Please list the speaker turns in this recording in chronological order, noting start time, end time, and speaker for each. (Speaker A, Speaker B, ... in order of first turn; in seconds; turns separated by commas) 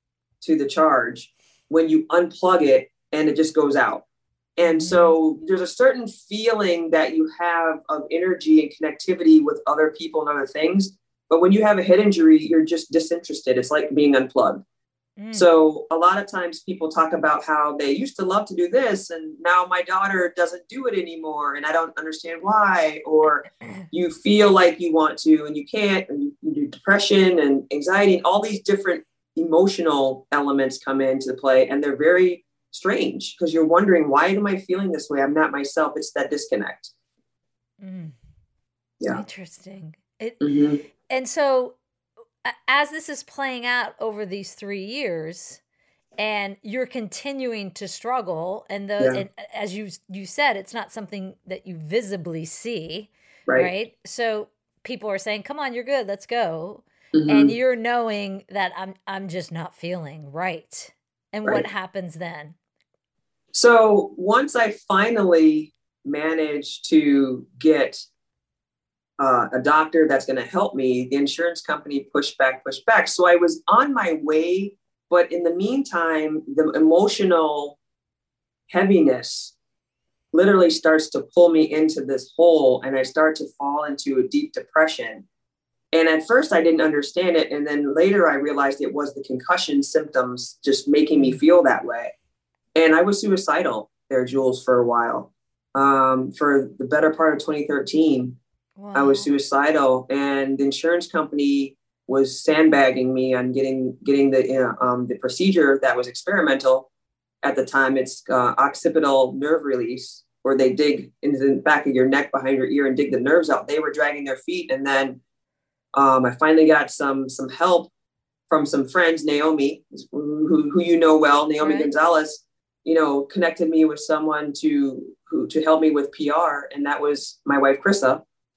Speaker A: 0.4-4.0, Speaker A: 4.6-14.6, Speaker B: 4.6-5.2, Speaker B: 15.2-15.5, Speaker A: 15.3-36.9, Speaker B: 37.8-38.1, Speaker B: 39.1-40.5, Speaker A: 40.4-40.8, Speaker B: 41.1-41.8, Speaker B: 42.4-45.6, Speaker B: 46.2-62.6, Speaker A: 57.1-57.6, Speaker A: 63.5-68.1, Speaker A: 69.2-77.8, Speaker A: 78.7-79.5, Speaker A: 80.3-85.2, Speaker A: 85.9-92.1, Speaker A: 92.8-98.4, Speaker B: 98.8-99.3, Speaker A: 98.9-106.9, Speaker A: 107.4-115.2, Speaker A: 115.9-117.9, Speaker A: 118.5-128.2, Speaker B: 121.6-121.9